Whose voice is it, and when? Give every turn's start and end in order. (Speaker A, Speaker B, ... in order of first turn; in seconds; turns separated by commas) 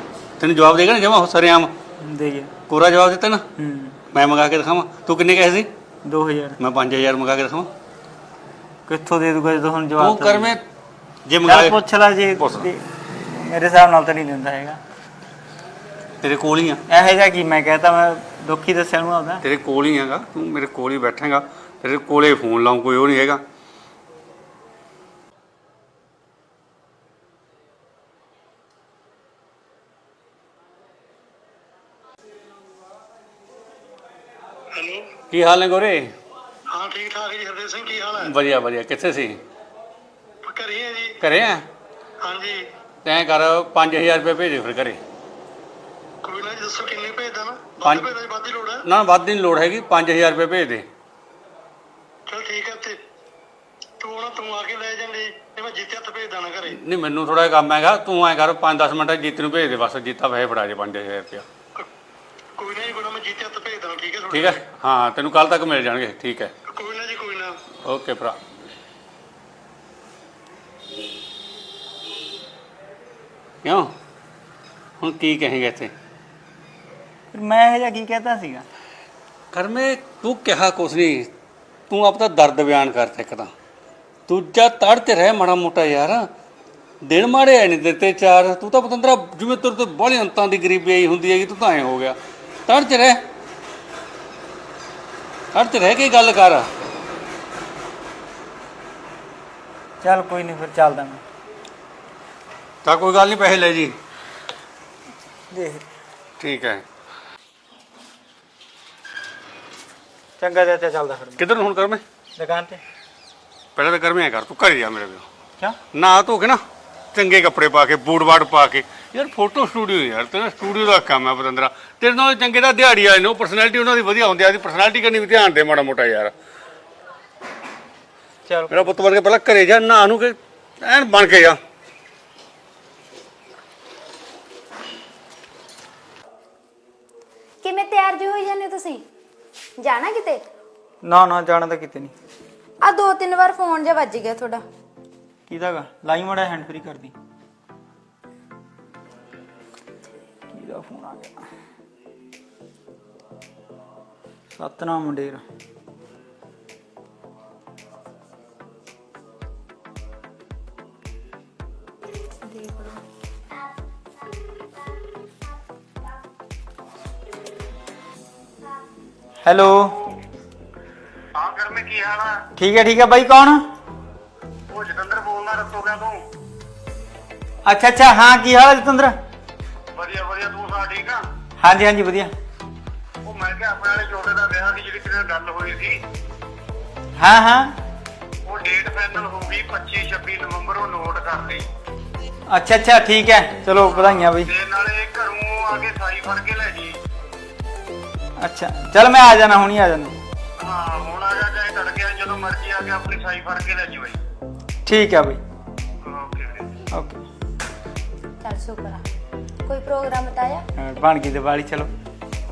Speaker A: 0.4-1.7, Speaker B: 2.0-2.5, Speaker A: 2.7-3.4, Speaker B: 3.6-4.0, Speaker A: 4.1-5.7, Speaker B: 6.0-6.6, Speaker A: 6.6-7.7, Speaker B: 8.9-10.6, Speaker A: 10.0-10.6, Speaker A: 11.3-11.8, Speaker B: 11.4-14.8, Speaker A: 12.4-12.7, Speaker A: 16.2-16.8, Speaker B: 16.9-19.4, Speaker A: 19.4-23.4, Speaker C: 34.7-35.1, Speaker A: 35.3-36.1, Speaker C: 36.7-38.3, Speaker A: 38.2-39.4, Speaker C: 40.4-41.2, Speaker A: 41.2-41.6, Speaker C: 42.2-42.6, Speaker A: 43.0-45.0, Speaker C: 46.2-48.8, Speaker A: 47.8-48.1, Speaker A: 48.8-50.9, Speaker C: 52.3-53.0, Speaker C: 54.0-56.8, Speaker A: 56.8-61.4, Speaker C: 62.6-64.6, Speaker A: 64.3-66.5, Speaker C: 66.7-67.5, Speaker A: 67.8-68.4, Speaker A: 73.6-73.9, Speaker A: 75.0-75.9, Speaker B: 77.3-78.6, Speaker A: 79.5-81.3, Speaker A: 81.9-83.5, Speaker A: 84.3-86.2, Speaker A: 87.0-93.2, Speaker A: 95.5-96.7, Speaker B: 100.0-101.2, Speaker A: 102.8-104.0, Speaker B: 105.5-105.8, Speaker A: 106.4-106.8, Speaker B: 110.4-111.4, Speaker A: 111.4-112.0, Speaker B: 112.4-112.8, Speaker A: 113.8-115.2, Speaker A: 115.9-116.6, Speaker A: 117.1-126.3, Speaker B: 128.4-128.9, Speaker A: 128.7-131.6, Speaker D: 137.6-139.0, Speaker D: 139.8-140.4, Speaker B: 141.0-142.1, Speaker D: 142.8-144.6, Speaker B: 145.5-147.1, Speaker B: 150.5-151.3, Speaker B: 154.5-155.4, Speaker B: 169.4-170.0, Speaker C: 171.3-172.4, Speaker B: 172.6-173.6, Speaker C: 174.7-176.2, Speaker B: 177.6-179.2, Speaker C: 179.9-181.2, Speaker B: 181.6-182.3, Speaker C: 183.2-186.0, Speaker B: 187.2-187.8, Speaker C: 188.4-191.6, Speaker B: 192.5-194.5, Speaker C: 193.9-197.0, Speaker B: 198.4-200.1, Speaker C: 200.6-204.2, Speaker B: 204.8-205.4, Speaker C: 206.0-206.7, Speaker B: 206.9-207.2, Speaker D: 208.4-209.0, Speaker D: 209.6-210.6, Speaker B: 210.8-211.9